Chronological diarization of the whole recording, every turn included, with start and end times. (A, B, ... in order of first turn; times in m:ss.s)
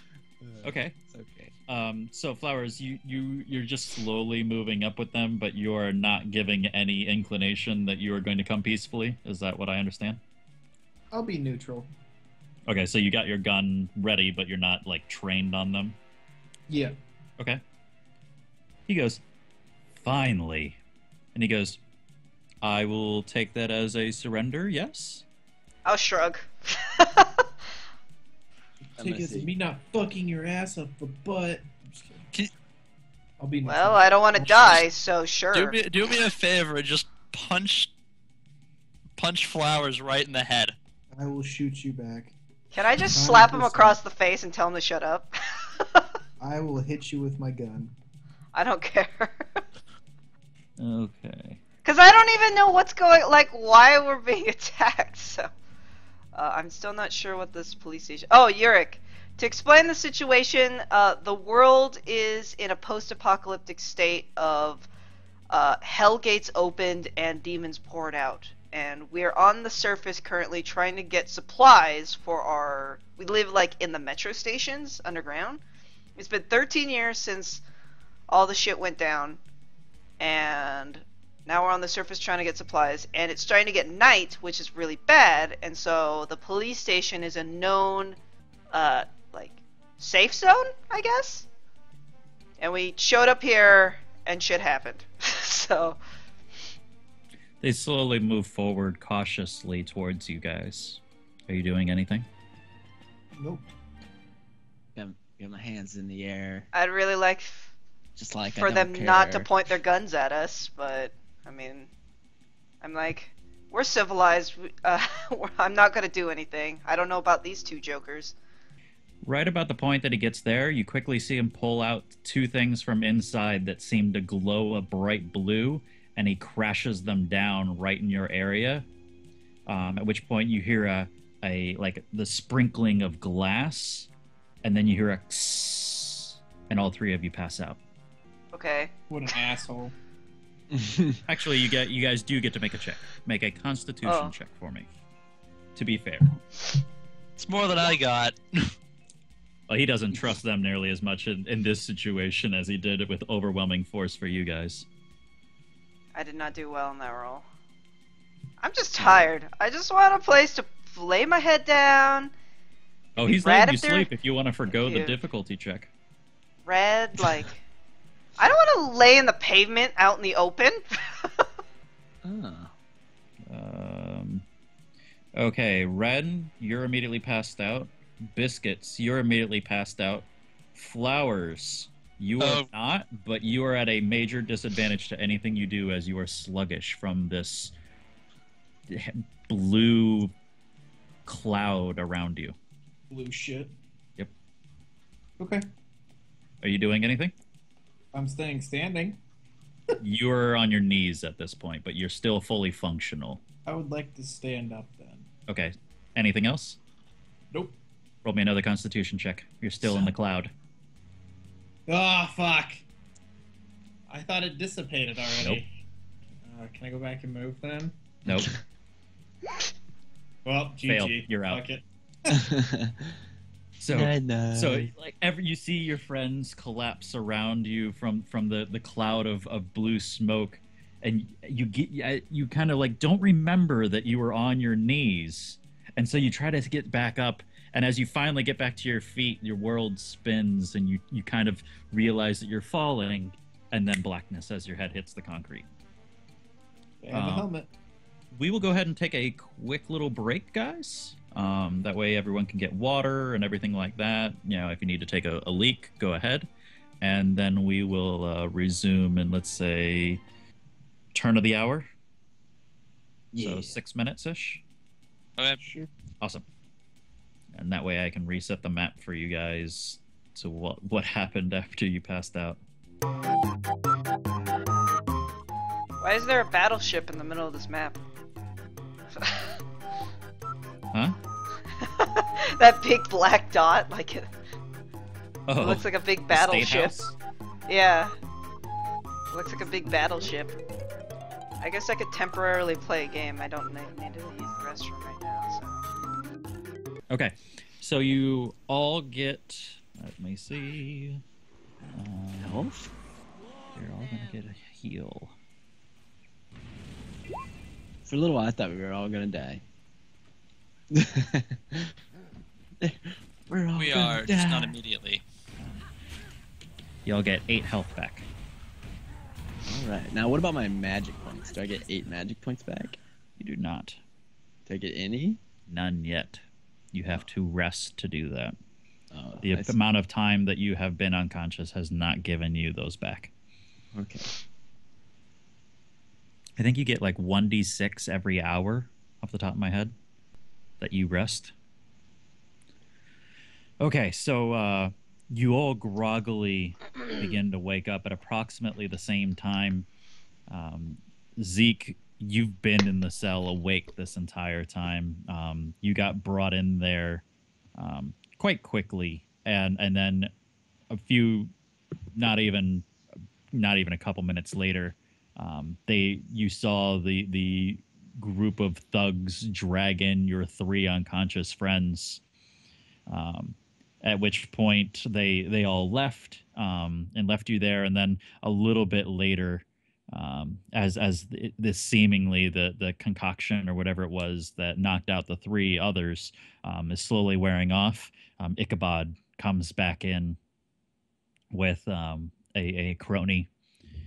0:00.4-0:01.5 A
0:00.6-0:01.0 B
0:01.7-0:10.2 B
0:11.1-0:11.9 C
0:12.7-0:16.0 B
0:16.7-0:17.0 C
0:18.9-0:19.2 B
0:20.0-0:20.8 B
0:21.3-0:21.8 B
0:22.6-0:25.2 B
0:25.8-0:27.4 D
0:29.0-0:29.5 A
0:29.0-0:32.2 C
0:33.4-0:34.8 C
0:33.6-0:35.8 D
0:35.5-0:37.9 E
0:39.2-0:40.8 E
0:41.1-0:42.4 C
0:42.7-0:46.1 D
0:43.0-0:44.0 C
0:46.4-0:47.9 C
0:48.6-0:49.6 D
0:50.8-0:51.6 B
0:51.8-0:55.5 D
0:56.3-1:04.9 D
1:05.5-1:15.6 D
1:16.2-1:17.6 D
1:18.3-1:19.4 D
1:20.2-1:28.2 D
1:28.7-1:31.5 D
1:32.6-1:36.0 D
1:37.6-1:42.2 B
1:43.4-1:43.6 C
1:45.0-1:46.7 A
1:46.7-1:47.7 D
1:48.2-1:49.5 A
1:48.6-1:51.9 D
1:52.8-1:58.4 D
1:59.2-2:08.9 B
2:09.7-2:14.1 B
2:14.6-2:17.8 B
2:18.5-2:18.9 D
2:19.1-2:19.9 C
2:20.7-2:21.2 A
2:21.3-2:24.9 B
2:24.0-2:24.3 D
2:25.8-2:26.3 B
2:27.4-2:28.7 E
2:29.7-2:34.9 B
2:36.1-2:37.4 D
2:38.6-2:42.3 D
2:43.2-2:45.9 B
2:43.2-2:44.1 D
2:44.7-2:45.2 D
2:46.7-2:47.6 D
2:48.4-2:51.5 D
2:52.2-2:52.7 A
2:53.5-2:54.4 B
2:55.4-3:07.7 B
3:02.4-3:02.7 E
3:08.9-3:10.3 B
3:11.2-3:12.6 B
3:13.1-3:13.8 C
3:15.4-3:15.6 C
3:16.6-3:17.3 B
3:18.1-3:19.2 C
3:20.0-3:23.4 B
3:23.7-3:25.3 C
3:25.5-3:26.8 B
3:28.2-3:30.5 B
3:31.9-3:32.8 C
3:34.1-3:35.7 C
3:36.4-3:38.0 C
3:38.2-3:38.5 B
3:38.2-3:38.6 A
3:40.4-3:42.4 C
3:40.8-3:41.6 B
3:42.3-3:43.2 A
3:43.8-4:05.7 B
3:43.9-3:44.9 A
4:07.0-4:07.7 C
4:07.1-4:07.5 B
4:08.3-4:16.5 B
4:17.0-4:20.2 B
4:21.1-4:21.9 B
4:23.3-4:23.8 A
4:23.4-4:24.6 B
4:27.5-4:32.6 B
4:36.0-4:38.0 D
4:39.2-4:39.5 D
4:41.8-4:44.3 D
4:45.5-4:47.2 B
4:45.6-4:46.9 D
4:47.7-4:48.1 D
4:49.3-4:50.6 D
4:51.6-4:55.8 D
4:57.1-5:01.2 B
5:01.9-5:02.7 B
5:02.4-5:02.9 A
5:03.7-5:05.4 B
5:08.0-5:09.6 A
5:10.9-5:11.9 A
5:12.8-5:14.8 A
5:13.8-5:15.2 E
5:17.1-5:18.2 B
5:19.6-5:23.0 A
5:23.4-5:24.0 B
5:24.7-5:25.4 A
5:25.7-5:28.6 B
5:29.1-5:29.8 A
5:29.4-5:33.3 B
5:33.9-5:34.3 A
5:36.6-5:39.9 B
5:40.8-5:41.5 B
5:43.8-5:49.9 B
5:50.5-5:57.2 B
5:57.8-6:00.3 B
6:00.9-6:01.5 B
6:02.2-6:02.9 B
6:03.5-6:12.2 B
6:13.1-6:30.4 B
6:31.5-6:33.5 B